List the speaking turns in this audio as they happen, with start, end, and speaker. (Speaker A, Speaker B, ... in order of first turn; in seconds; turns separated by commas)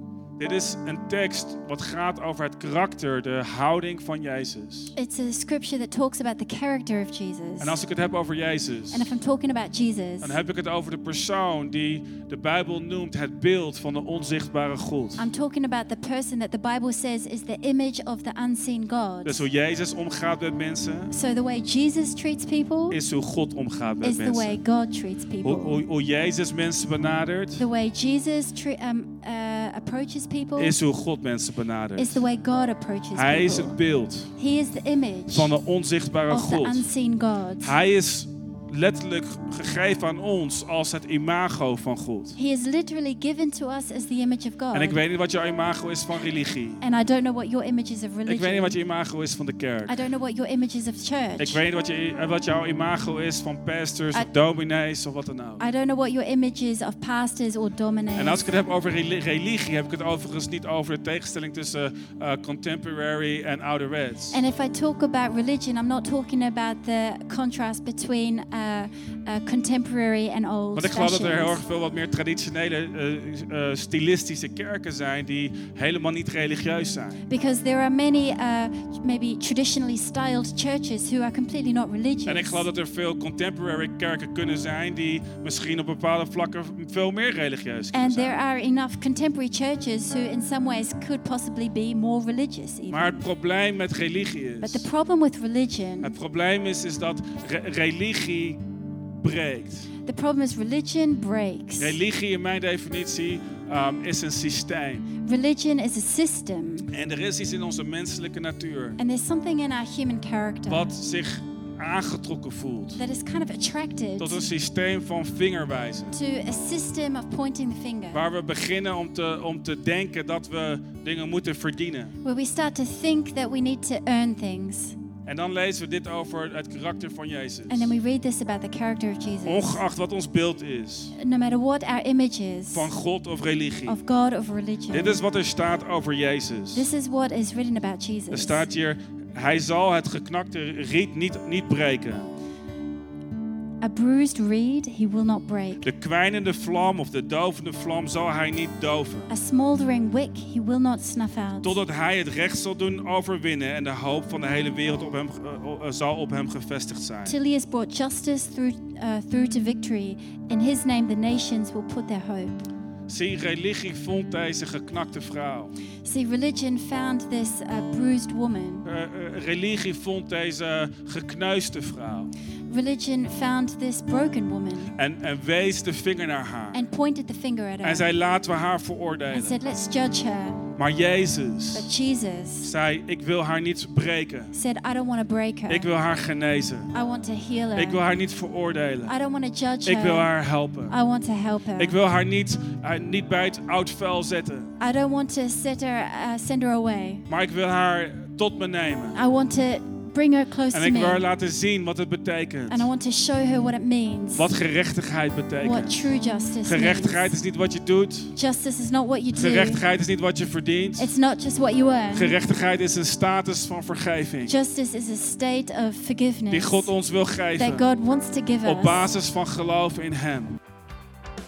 Speaker A: 0.4-4.9, Speaker B: 5.0-7.8, Speaker A: 7.6-9.1, Speaker B: 8.9-10.4, Speaker A: 10.2-15.3, Speaker B: 15.2-19.5, Speaker A: 19.2-21.1, Speaker B: 21.1-23.0, Speaker A: 22.9-24.6, Speaker B: 24.0-25.8, Speaker A: 25.4-27.6, Speaker B: 27.6-30.8, Speaker A: 30.6-32.2, Speaker B: 32.0-33.8, Speaker A: 33.2-34.3, Speaker B: 34.4-35.5, Speaker A: 35.3-36.9, Speaker B: 36.3-37.8, Speaker A: 37.6-42.4, Speaker B: 42.4-45.0, Speaker A: 44.7-46.8, Speaker B: 46.8-48.8, Speaker A: 48.3-50.0, Speaker B: 49.9-51.6, Speaker A: 51.4-55.6, Speaker B: 55.6-58.4, Speaker A: 58.2-64.4, Speaker B: 64.3-71.6, Speaker A: 70.8-77.2, Speaker B: 77.3-82.7, Speaker A: 82.3-88.4, Speaker B: 87.9-93.2, Speaker A: 92.9-94.9, Speaker B: 94.6-96.2, Speaker A: 96.0-98.6, Speaker A: 99.2-99.9, Speaker B: 100.0-102.0, Speaker A: 101.8-105.1, Speaker B: 105.2-106.9, Speaker A: 106.9-109.0, Speaker B: 109.0-110.9, Speaker A: 110.7-113.0, Speaker B: 113.0-114.4, Speaker A: 114.2-116.2, Speaker B: 116.1-118.2, Speaker A: 118.1-122.2, Speaker B: 122.2-125.0, Speaker A: 125.3-127.9, Speaker B: 127.7-129.8, Speaker A: 129.4-131.1, Speaker B: 131.2-132.9, Speaker A: 132.7-134.0, Speaker B: 133.9-135.2, Speaker A: 134.9-136.9, Speaker B: 136.7-138.7, Speaker A: 138.3-142.3, Speaker B: 143.8-145.9, Speaker A: 145.8-149.3, Speaker B: 149.3-151.8, Speaker A: 151.6-157.4, Speaker B: 157.3-162.7, Speaker A: 163.1-165.7, Speaker B: 166.1-168.9, Speaker A: 168.9-172.3, Speaker B: 172.7-174.9, Speaker A: 175.0-176.8, Speaker B: 176.7-178.1, Speaker A: 177.8-179.6, Speaker B: 179.3-180.6, Speaker A: 180.8-181.9, Speaker B: 181.8-182.7, Speaker A: 182.6-184.5, Speaker B: 184.5-185.9, Speaker A: 185.7-186.9, Speaker B: 186.9-188.0, Speaker A: 187.8-189.1, Speaker B: 189.1-190.3, Speaker A: 189.8-190.9, Speaker B: 190.9-192.0, Speaker A: 191.8-194.7, Speaker B: 194.8-197.3, Speaker A: 197.3-199.2, Speaker B: 199.2-201.2, Speaker A: 200.7-202.9, Speaker B: 202.7-204.5, Speaker A: 204.4-206.0, Speaker B: 205.6-207.3, Speaker A: 206.7-208.3, Speaker B: 208.3-209.8, Speaker A: 209.4-211.1, Speaker B: 211.0-212.4, Speaker A: 212.1-214.5, Speaker B: 214.5-216.9, Speaker A: 216.5-217.9, Speaker B: 217.6-219.1, Speaker A: 218.7-220.6